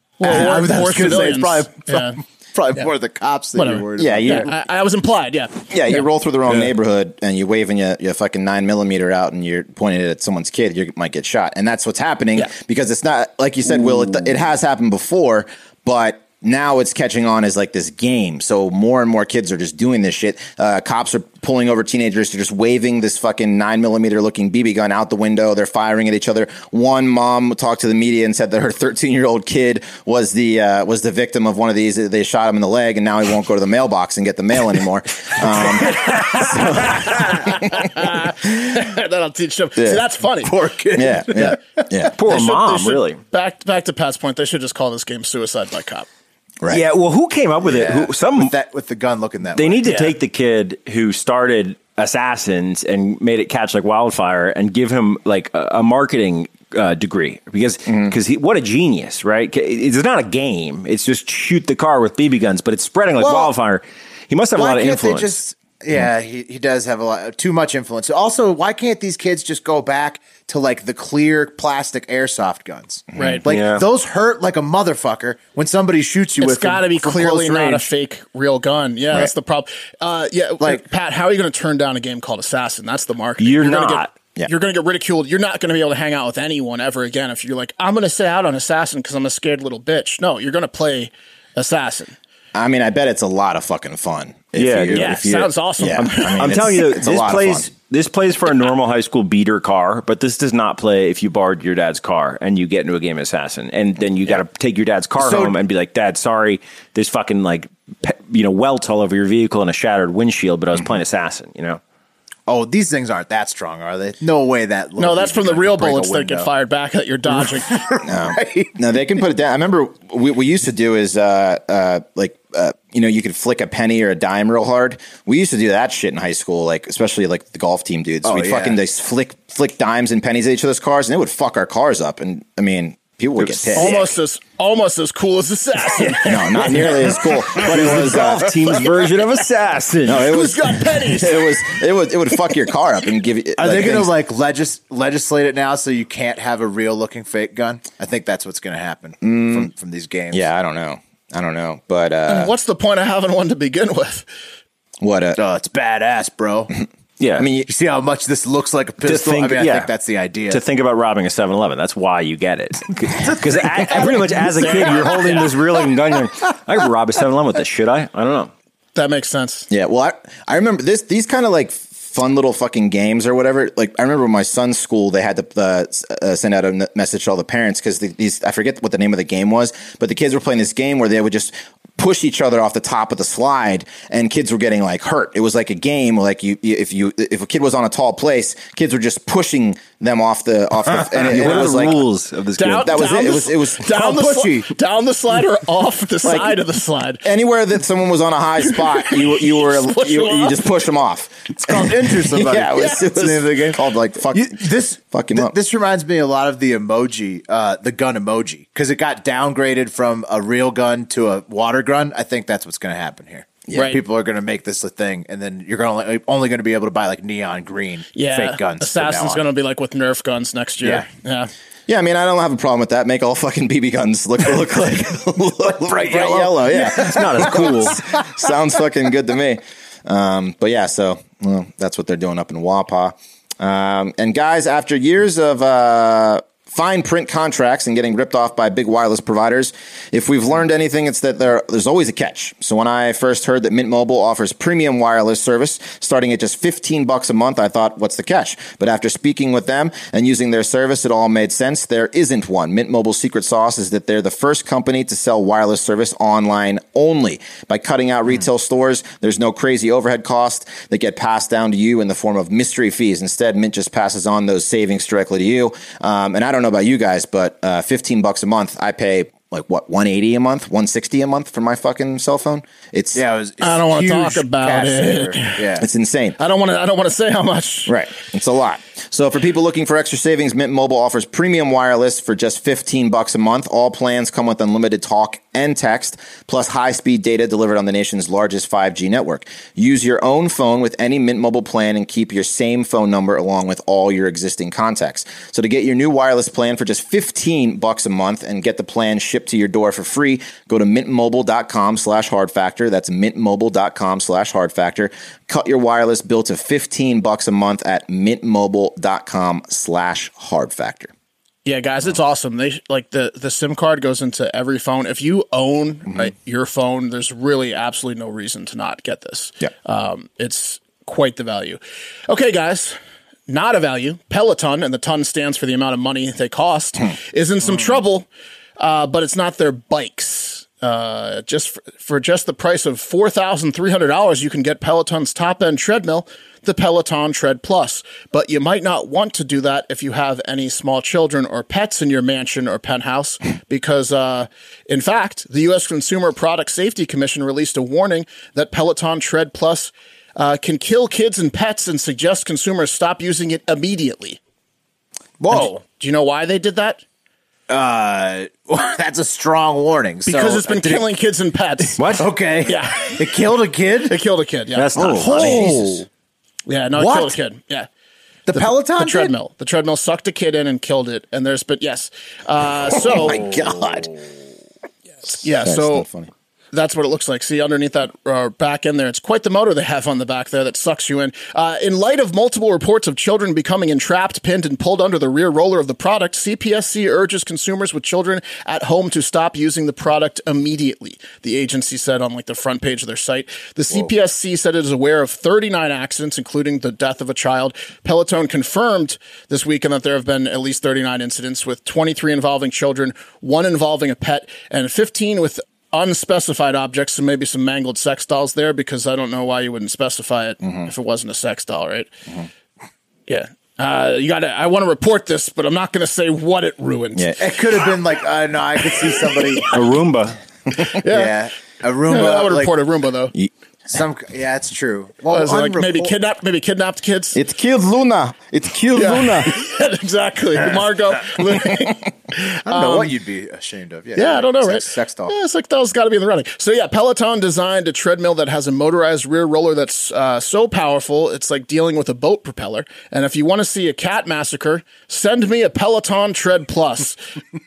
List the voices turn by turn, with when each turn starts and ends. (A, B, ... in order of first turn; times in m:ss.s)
0:00.2-0:02.2 A
0:00.2-0:04.5 B
0:03.6-0:06.0 A
0:04.0-0:04.5 C
0:05.7-0:37.9 C
0:36.0-0:40.5 A
0:39.8-0:40.0 C
0:40.4-0:41.6 B
0:40.9-0:42.2 C
0:42.1-0:43.2 D
0:42.2-0:46.1 A
0:46.7-0:48.5 D
0:47.6-0:50.0 B
0:49.5-1:05.4 D
0:49.8-0:50.1 A
0:57.9-0:58.1 C
1:03.2-1:03.5 B
1:04.6-1:17.9 B
1:13.2-1:13.4 A
1:13.4-1:13.8 D
1:16.4-1:32.2 A
1:23.4-1:24.1 D
1:32.5-1:37.7 C
1:34.6-1:35.2 D
1:34.9-1:36.8 A
1:35.9-1:51.8 D
1:45.2-1:45.5 B
1:52.5-1:56.5 B
1:55.0-1:57.8 A
1:57.3-1:58.9 B
1:58.0-2:13.9 C
2:08.2-2:08.8 B
2:13.4-2:14.0 D
2:13.7-2:17.7 A
2:16.2-2:18.6 C
2:17.5-2:20.3 D
2:20.0-2:24.1 C
2:20.2-2:21.5 A
2:23.6-2:30.4 B
2:29.2-2:29.7 C
2:30.3-2:32.5 C
2:32.3-2:34.3 A
2:35.0-2:35.4 C
2:35.4-2:36.7 B
2:37.2-2:37.5 D
2:37.4-2:37.7 C
2:37.6-2:40.6 B
2:39.0-2:39.9 D
2:40.5-2:48.5 D
2:43.2-2:45.5 B
2:43.9-2:45.5 A
2:48.9-2:49.7 A
2:49.7-3:12.0 C
3:11.0-3:13.0 D
3:12.6-3:17.2 A
3:12.8-3:14.0 C
3:13.9-3:14.7 B
3:16.2-3:16.6 C
3:17.2-3:25.5 C
3:18.6-3:20.6 A
3:21.6-3:39.4 B
3:33.7-3:34.0 A
3:38.1-3:41.5 A
3:41.9-4:33.2 C
3:45.8-3:48.2 B
3:46.8-3:48.0 D
4:33.1-4:35.9 B
4:33.6-4:35.6 A
4:35.8-4:36.4 C
4:36.4-4:38.0 A
4:37.9-5:11.1 C
5:11.6-5:23.0 A
5:16.1-5:16.3 C
5:23.5-5:28.3 A
5:28.8-5:54.4 A
5:55.4-5:55.7 B
5:55.5-5:57.0 A
5:57.7-6:01.1 B
6:00.2-6:02.0 A
6:02.0-6:02.3 D
6:02.2-6:04.2 B
6:02.6-6:03.2 A
6:04.1-6:04.9 A
6:04.7-6:05.7 D
6:05.0-6:06.0 C
6:05.0-6:06.0 B
6:06.7-6:07.9 A
6:07.0-6:07.3 B
6:08.5-6:09.3 B
6:08.5-6:13.4 A
6:12.9-6:14.2 C
6:15.2-6:16.1 A
6:15.3-6:16.3 C
6:16.7-6:52.1 A
6:53.3-6:57.3 A
6:57.1-6:57.4 C
6:57.4-6:59.7 B
6:59.7-7:00.4 D
7:00.7-7:01.4 A
7:01.0-7:02.7 B
7:02.1-7:03.3 A
7:03.9-7:06.1 B
7:05.3-7:07.4 A
7:07.3-7:09.7 C
7:08.9-7:13.1 A
7:12.7-7:15.3 B
7:14.2-7:27.2 A